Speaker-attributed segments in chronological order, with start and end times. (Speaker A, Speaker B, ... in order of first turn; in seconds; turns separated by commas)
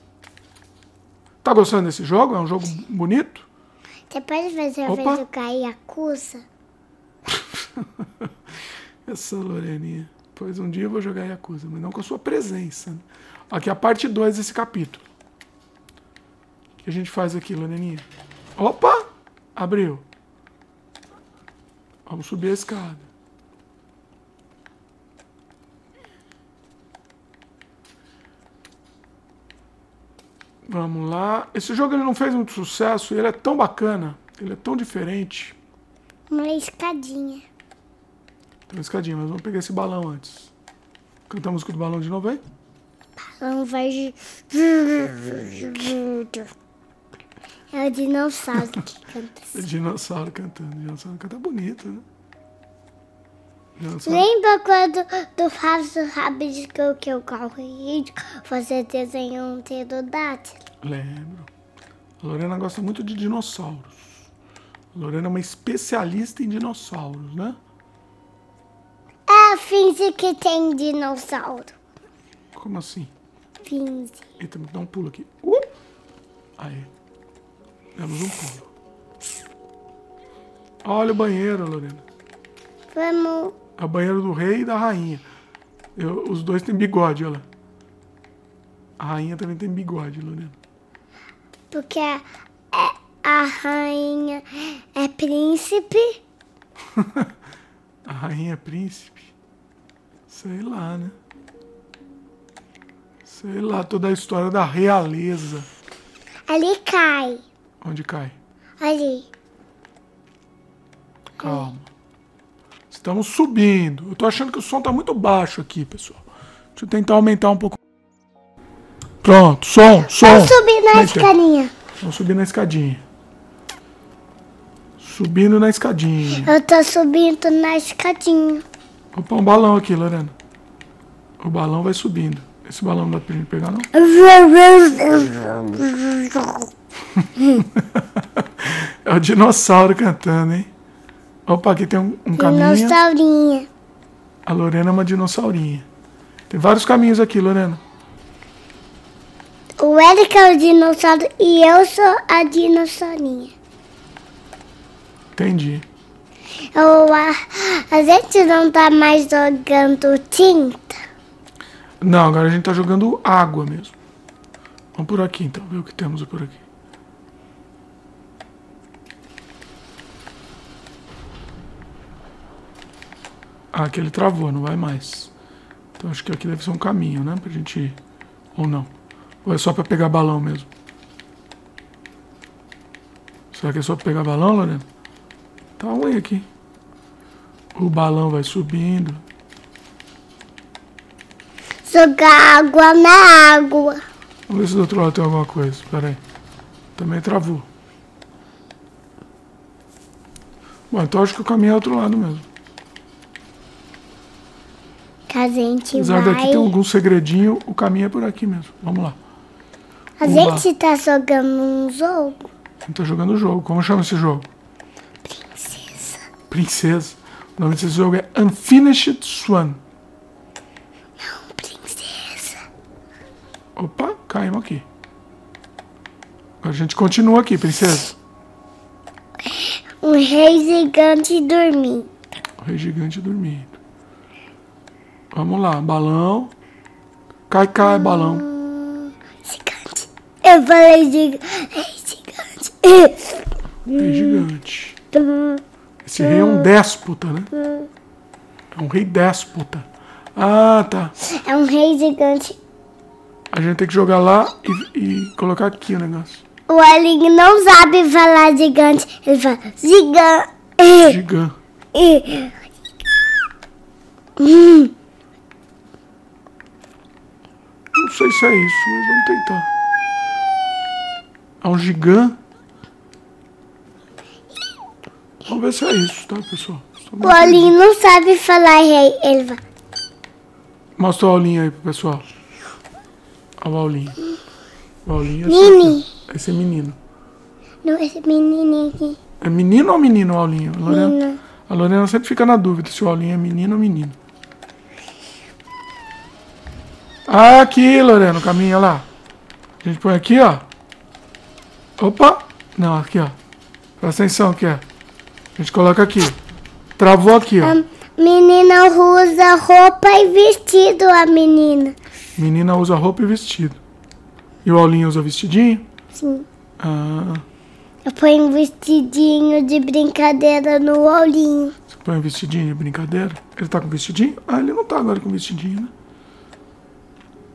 Speaker A: 1.4-3.5, Speaker B: 4.1-6.4, Speaker A: 4.9-5.2, Speaker A: 7.3-8.3, Speaker A: 9.1-15.0, Speaker A: 16.8-20.1, Speaker A: 22.1-23.1, Speaker A: 30.6-35.6, Speaker B: 36.3-37.4, Speaker A: 38.7-40.5, Speaker A: 41.3-42.4, Speaker B: 43.4-46.5, Speaker B: 47.7-49.6, Speaker A: 49.5-52.0, Speaker A: 53.8-54.3, Speaker B: 54.0-60.6, Speaker A: 60.8-61.5, Speaker A: 62.2-64.2, Speaker A: 64.9-67.6, Speaker B: 69.3-71.8, Speaker A: 72.5-73.1, Speaker B: 73.6-74.3, Speaker A: 74.4-75.7, Speaker A: 76.6-76.9, Speaker A: 78.0-78.7, Speaker A: 80.8-82.0, Speaker B: 82.9-83.6, Speaker A: 83.8-85.2, Speaker A: 86.0-87.5, Speaker A: 89.0-90.6, Speaker B: 91.7-96.2, Speaker A: 96.9-97.3, Speaker A: 98.1-99.3, Speaker A: 100.3-101.2, Speaker A: 103.2-105.7, Speaker B: 106.5-107.4, Speaker A: 107.8-108.4, Speaker B: 108.8-109.3, Speaker A: 111.4-111.9, Speaker B: 111.4-111.7, Speaker A: 112.9-117.8, Speaker A: 119.2-121.3, Speaker B: 120.1-121.7, Speaker A: 122.0-123.0, Speaker A: 125.0-126.5, Speaker B: 126.4-128.7, Speaker A: 129.1-130.3, Speaker A: 131.4-133.9, Speaker B: 133.9-136.7, Speaker A: 137.2-140.7, Speaker A: 141.5-143.0, Speaker B: 142.3-143.7, Speaker A: 144.4-145.9, Speaker A: 146.5-147.8, Speaker B: 149.8-153.5, Speaker A: 155.3-155.9, Speaker B: 156.7-161.0, Speaker A: 162.0-164.0, Speaker A: 164.9-166.6, Speaker A: 173.7-175.3, Speaker A: 176.0-178.0, Speaker A: 178.6-178.9, Speaker A: 179.4-180.7, Speaker A: 183.5-184.8, Speaker A: 185.8-186.5, Speaker A: 187.8-189.2, Speaker B: 191.8-194.0, Speaker A: 194.5-196.2, Speaker A: 197.0-197.7, Speaker A: 200.9-202.5, Speaker B: 205.3-206.7, Speaker A: 205.9-209.2, Speaker B: 210.2-212.4, Speaker A: 210.2-210.7, Speaker A: 212.8-214.5, Speaker B: 215.3-216.2, Speaker A: 216.5-219.8, Speaker B: 221.2-222.6, Speaker A: 223.8-224.9, Speaker A: 226.6-228.2, Speaker B: 229.4-232.1, Speaker A: 232.6-233.8, Speaker A: 235.3-236.5, Speaker A: 237.5-238.4, Speaker B: 237.8-244.4, Speaker A: 243.9-245.0, Speaker B: 245.1-245.6, Speaker A: 246.0-247.5, Speaker B: 246.2-246.7, Speaker B: 247.5-247.9, Speaker A: 248.7-251.2, Speaker B: 251.2-252.6, Speaker A: 253.5-256.4, Speaker B: 256.7-261.2, Speaker A: 261.0-261.6, Speaker B: 261.9-262.6, Speaker B: 264.4-264.9, Speaker A: 267.9-269.7, Speaker A: 271.6-272.4, Speaker A: 275.5-277.8, Speaker B: 277.2-279.6, Speaker A: 281.0-282.2, Speaker A: 283.6-284.2, Speaker A: 285.1-287.0, Speaker B: 285.5-286.1, Speaker B: 287.9-289.2, Speaker A: 289.4-291.2, Speaker B: 290.9-291.4, Speaker A: 291.7-294.2, Speaker A: 297.3-299.1, Speaker A: 299.8-300.7, Speaker A: 302.0-303.4, Speaker A: 304.0-304.8, Speaker A: 305.6-306.4, Speaker A: 307.0-307.8, Speaker B: 307.6-312.0, Speaker A: 312.4-313.8, Speaker A: 314.6-315.9, Speaker B: 316.1-316.5, Speaker A: 316.8-317.4, Speaker B: 318.1-321.8, Speaker A: 321.9-325.9